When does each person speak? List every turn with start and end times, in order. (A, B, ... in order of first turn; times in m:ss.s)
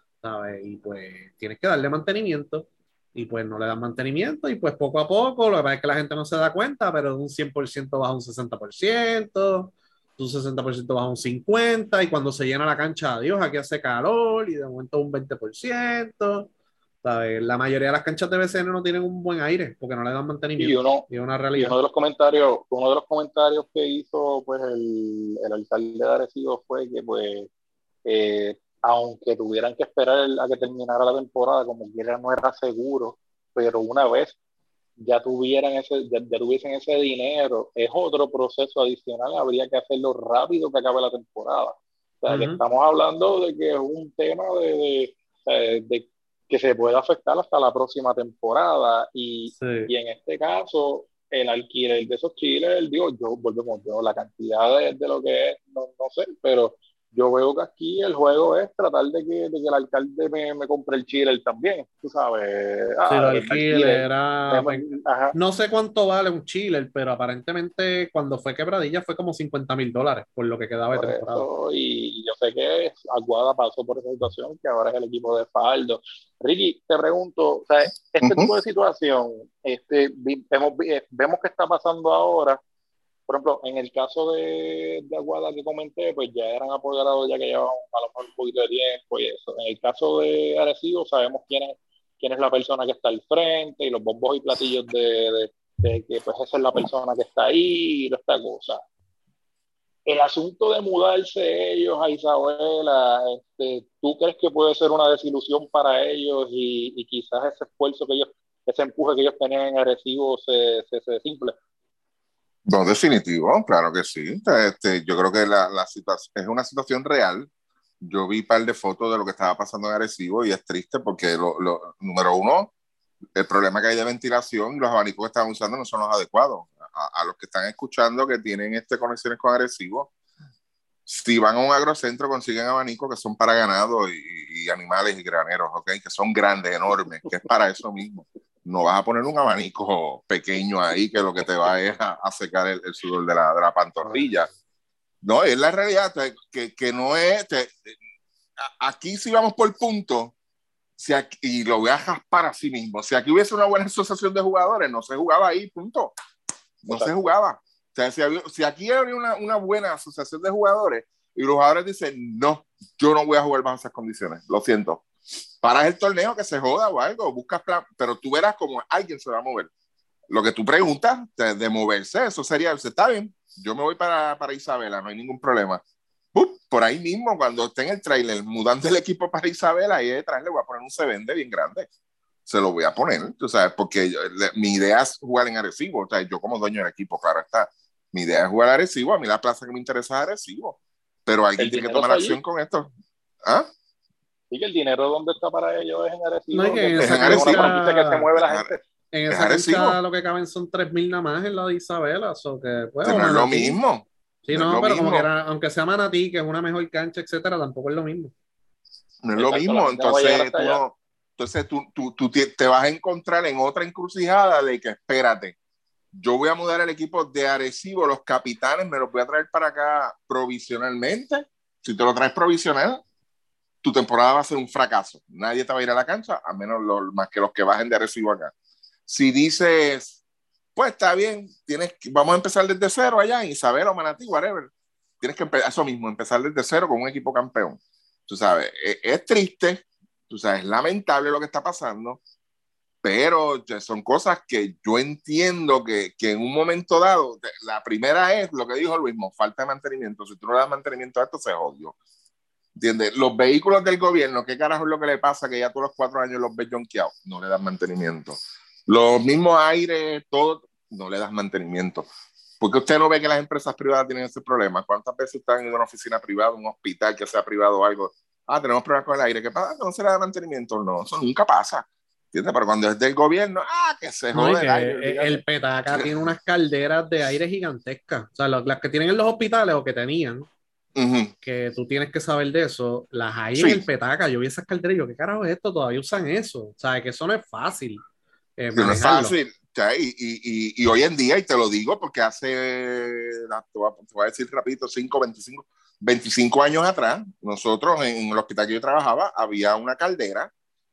0:00.2-0:16.5 A
0:17.0-0:21.8 A
0:20.6-0:27.5 B
0:28.0-0:34.4 B
0:35.0-1:05.4 B
0:42.3-0:42.6 A
0:49.6-0:49.9 A
1:03.1-1:11.5 A
1:10.9-1:22.6 B
1:18.2-1:18.5 C
1:23.3-1:38.8 B
1:40.1-1:51.6 B
1:52.7-1:57.5 C
1:58.0-2:02.7 C
2:03.4-2:10.1 C
2:11.1-2:24.5 C
2:25.2-2:28.0 C
2:28.6-2:30.4 C
2:31.0-2:36.1 C
2:36.8-2:45.1 C
2:36.9-2:37.2 B
2:45.6-2:49.7 C
2:50.3-2:55.8 C
2:56.3-3:01.9 C
3:02.5-3:12.9 C
3:11.6-3:12.4 B
3:13.4-3:13.7 C
3:14.5-3:18.8 B
3:16.5-3:18.3 A
3:17.0-3:17.8 C
3:18.4-3:18.7 C
3:19.1-3:23.8 A
3:19.3-3:20.0 C
3:23.0-3:25.3 C
3:24.4-3:28.3 A
3:29.2-3:35.6 C
3:29.4-3:30.8 B
3:36.2-3:43.0 C
3:43.8-3:48.5 C
3:49.1-3:50.2 C
3:50.8-3:54.7 C
3:55.2-4:02.2 C
4:03.0-4:12.0 C
4:12.8-4:22.1 C
4:22.6-4:36.1 C
4:34.3-4:40.5 A
4:41.0-4:41.3 C
4:41.4-4:48.0 A
4:43.6-4:43.8 C
4:48.6-4:49.4 A
4:48.8-5:00.5 C